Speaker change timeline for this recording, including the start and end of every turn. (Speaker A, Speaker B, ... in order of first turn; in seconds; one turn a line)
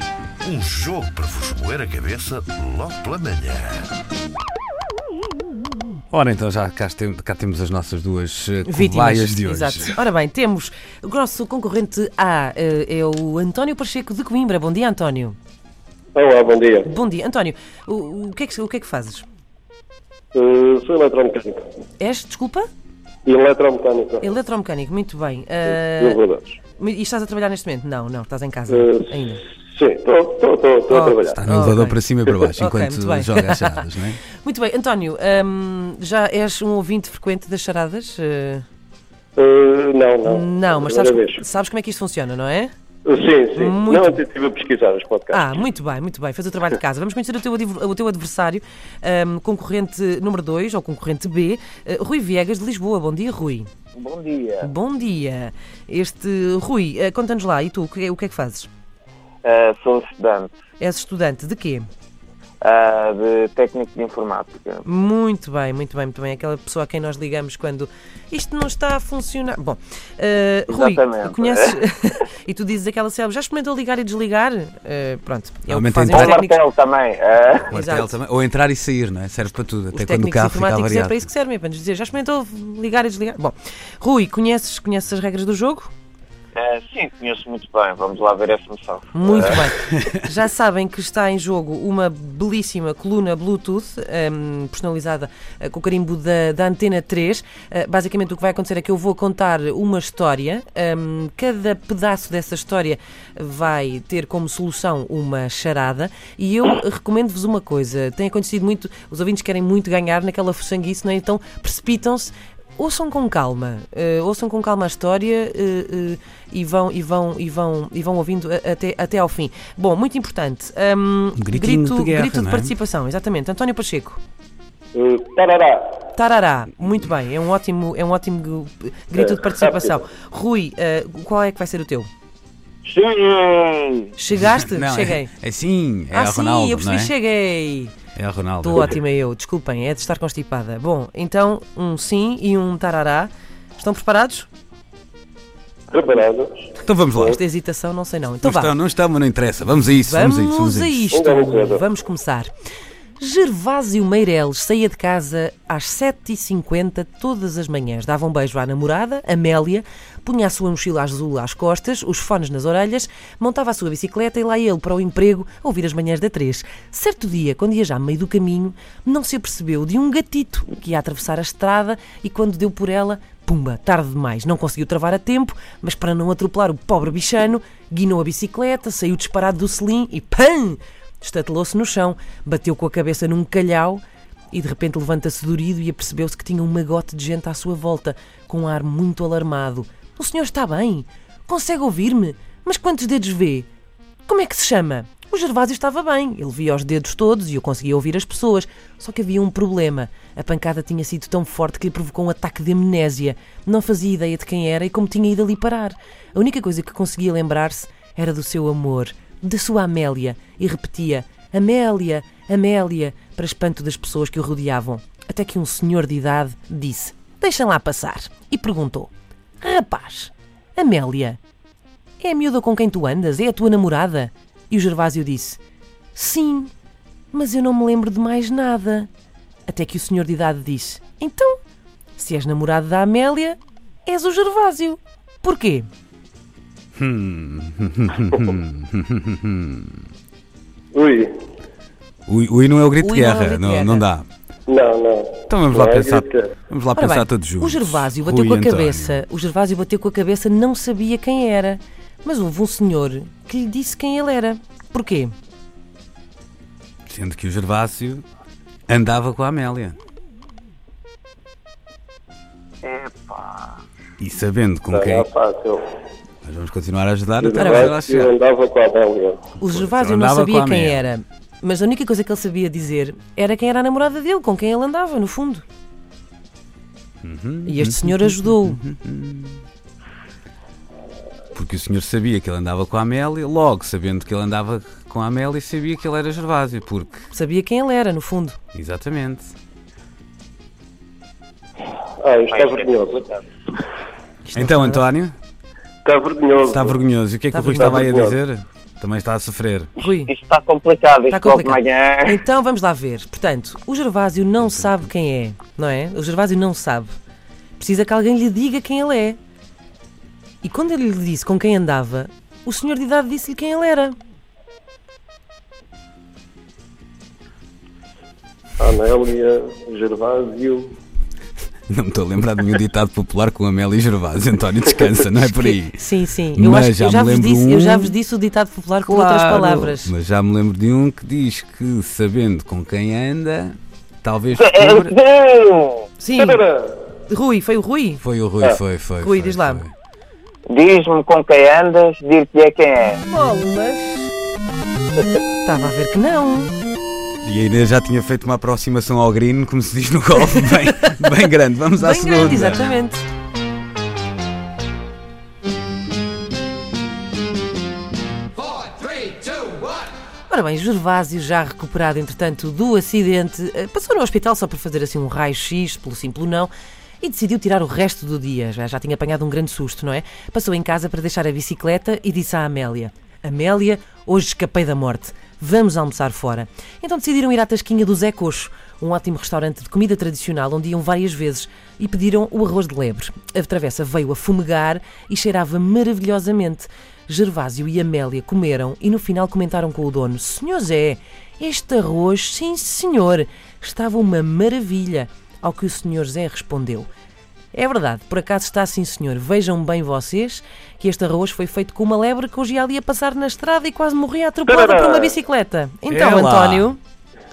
Speaker A: 0.4-3.9
Speaker B: 6.1-10.0
Speaker C: 8.7-15.4
Speaker D: 16.1-16.9
Speaker C: 16.8-19.3
Speaker D: 20.3-21.6
Speaker C: 22.0-22.7
Speaker D: 23.2-24.3
Speaker C: 24.2-26.2
Speaker D: 25.9-26.6
Speaker C: 26.8-29.4
Speaker D: 28.7-29.1
Speaker D: 29.7-31.4
Speaker C: 30.9-32.0
Speaker B: 31.3-34.2
Speaker C: 32.5-38.6
Speaker D: 39.4-41.4
Speaker C: 40.2-42.7
Speaker D: 43.0-45.6
Speaker C: 43.6-44.2
Speaker C: 45.3-53.7
Speaker E: 54.0-54.7
Speaker C: 54.6-58.7
Speaker E: 59.4-60.5
Speaker C: 60.8-61.9
Speaker E: 62.6-64.8
Speaker C: 64.8-76.6
Speaker E: 70.7-71.8
Speaker B: 75.7-76.4
Speaker E: 76.1-77.8
Speaker B: 77.7-81.3
Speaker C: 77.7-78.1
Speaker C: 79.9-85.9
Speaker E: 86.5-89.7
Speaker C: 89.1-124.2
Speaker B: 121.4-122.7
Speaker D: 124.9-126.0
Speaker C: 126.1-132.1
Speaker D: 129.1-129.9
Speaker E: 132.9-134.1
Speaker C: 134.2-135.3
Speaker B: 134.3-137.1
Speaker C: 136.1-137.9
Speaker B: 138.2-138.9
Speaker C: 138.6-144.5
Speaker D: 145.9-146.7
Speaker B: 146.8-147.4
Speaker C: 147.2-148.7
Speaker B: 148.4-151.1
Speaker C: 150.0-152.5
Speaker D: 151.1-151.9
Speaker C: 153.2-193.7
Speaker C: 194.3-221.4
Speaker C: 222.2-225.6
Speaker C: 226.2-226.7
Speaker C: 227.3-229.1
Speaker C: 229.7-231.6
Speaker C: 232.2-235.9
Speaker B: 237.0-240.0
Speaker D: 240.9-241.3
Speaker B: 242.3-244.2
Speaker C: 243.0-244.1
Speaker D: 244.7-246.5
Speaker B: 245.5-249.2
Speaker C: 246.9-255.3
Speaker B: 257.1-258.2
Speaker B: 258.9-260.0
Speaker E: 262.8-263.8
Speaker B: 264.2-265.3
Speaker D: 264.9-265.8
Speaker B: 266.4-268.3
Speaker D: 267.4-269.4
Speaker C: 267.6-268.0
Speaker C: 269.6-275.6
Speaker B: 269.7-271.0
Speaker B: 277.2-279.6
Speaker C: 277.7-278.8
Speaker B: 281.6-287.3
Speaker C: 287.3-288.6
Speaker B: 288.7-289.5
Speaker D: 292.2-293.3
Speaker E: 292.5-292.9
Speaker C: 294.5-295.1
Speaker B: 294.6-295.4
Speaker D: 296.1-297.0
Speaker B: 296.7-299.9
Speaker C: 297.5-298.1
Speaker D: 297.7-298.4
Speaker C: 300.0-300.3
Speaker E: 300.3-302.4
Speaker C: 301.3-307.1
Speaker C: 307.8-309.4
Speaker C: 310.6-314.1
Speaker D: 318.8-320.9
Speaker B: 321.9-326.0
Speaker C: 325.4-330.1
Speaker B: 326.5-328.2
Speaker B: 329.1-335.1
Speaker E: 334.6-336.1
Speaker C: 336.2-336.6
Speaker D: 336.4-337.0
Speaker C: 337.3-338.2
Speaker B: 338.2-339.9
Speaker C: 339.2-339.9
Speaker E: 340.7-343.2
Speaker C: 343.3-344.3
Speaker C: 345.6-346.7
Speaker B: 347.4-352.9
Speaker C: 352.0-353.2
Speaker C: 360.5-397.1
Speaker C: 397.7-407.0
Speaker D: 404.7-405.3
Speaker B: 406.1-406.9